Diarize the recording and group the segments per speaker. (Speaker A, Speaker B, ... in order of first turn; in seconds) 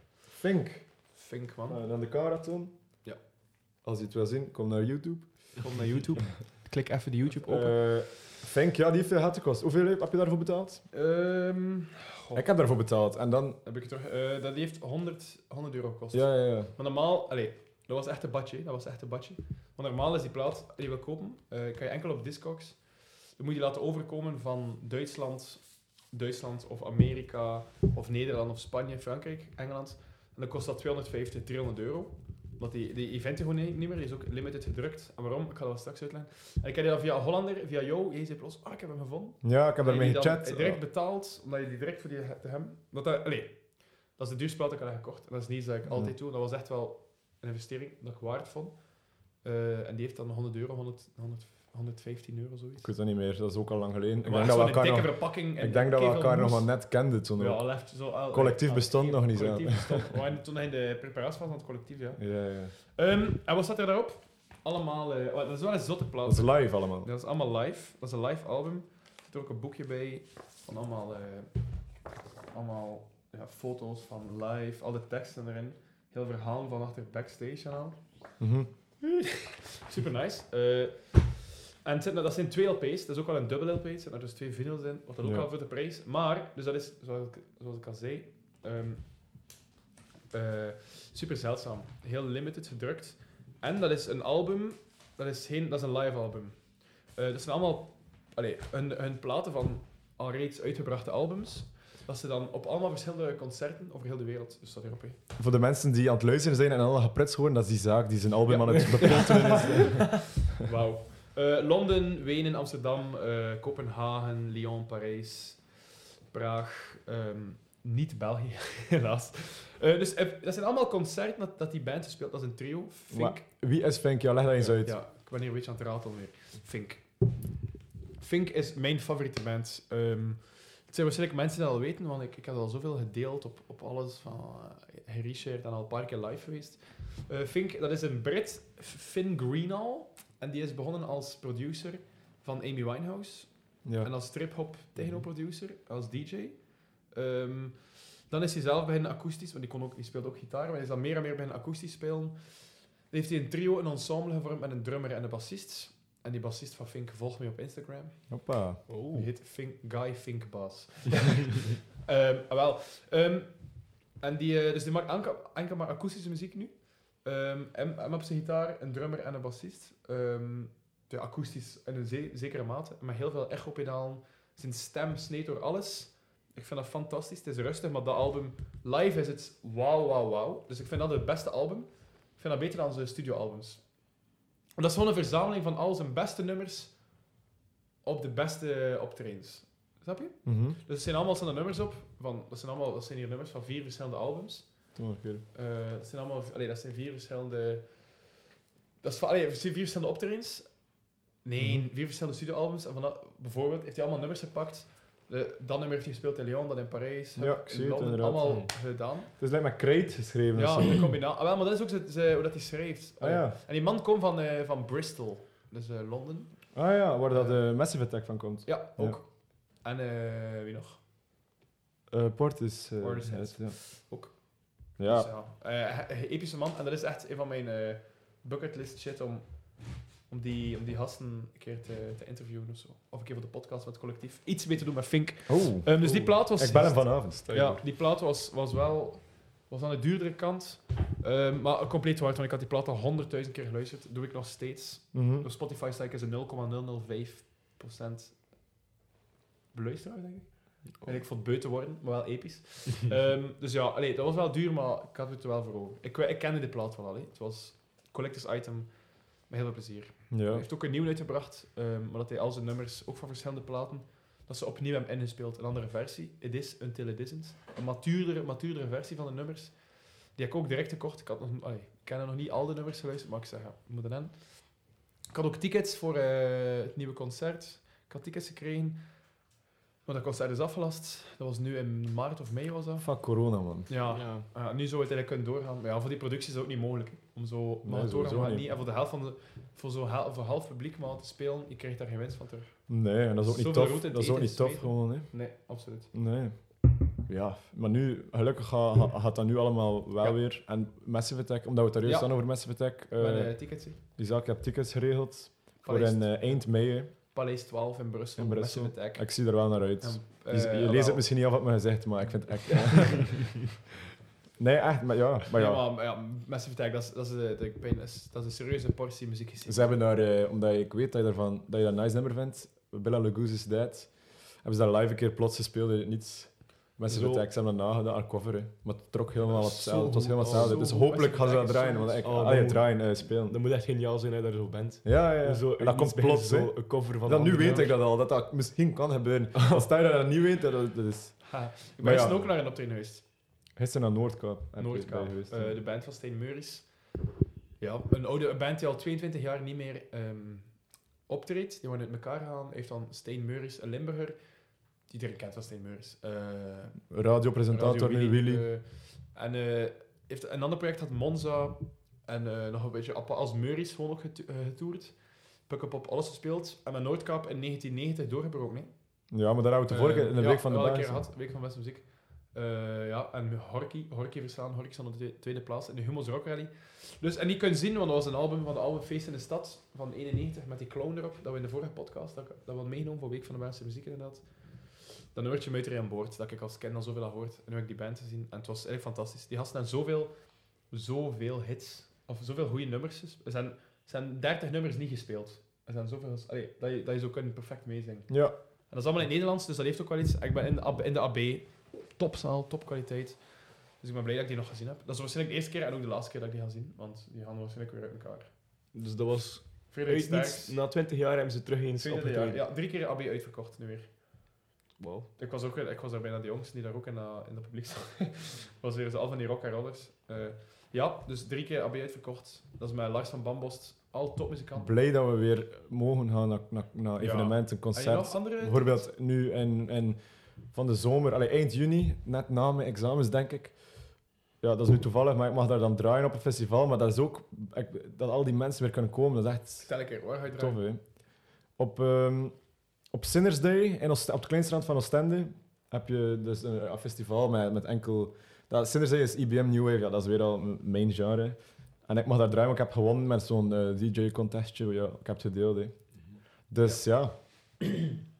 Speaker A: 0.3-5.7, 7.3-10.8, 12.3-13.6, 16.1-16.7, 39.4-40.8, 45.9-46.1, 52.8-60.1, 62.2-62.7, 66.2-67.1, 78.4-78.7, 85.2-85.5, 105.4-110.4, 123.1-125.0, 143.8-144.1, 158.3-158.9, 190.4-190.8, 194.9-195.4, 201.6-201.8, 207.3-211.1, 213.2-213.6, 216.7-219.2, 222.1-223.8, 225.0-225.3, 235.5-237.8, 245.1-245.5, 260.3-260.6, 283.0-283.9, 287.8-288.6, 292.9-307.1, 308.4-313.6, 314.6-315.8, 319.6-333.6, 335.0-342.5, 343.7-345.8, 357.1-358.7, 369.3-371.3, 398.3-398.6, 424.8-458.0
Speaker B: 1.1-1.8, 5.6-8.0, 10.9-12.5, 13.6-52.9, 54.2-79.1, 79.8-89.5, 90.3-105.2, 108.5-123.6, 124.6-127.6, 128.2-187.3, 188.0-198.4, 199.0-209.3, 210.5-221.0, 223.0-248.6, 249.7-279.5, 280.0-296.1, 302.0-304.0, 305.8-311.3, 315.5-320.0, 330.1-332.2, 341.4-343.2, 344.8-347.2, 347.8-408.5, 409.9-410.8, 412.0-414.6, 415.4-424.9, 427.2-429.1, 439.9-440.8, 456.8-457.1
Speaker C: 108.7-109.8, 144.9-145.2, 158.9-159.3, 208.4-208.7, 236.0-236.3, 237.4-237.8, 284.1-284.4, 327.1-327.4, 329.4-330.9, 332.2-337.9, 339.5-339.8, 408.9-412.6, 415.0-415.3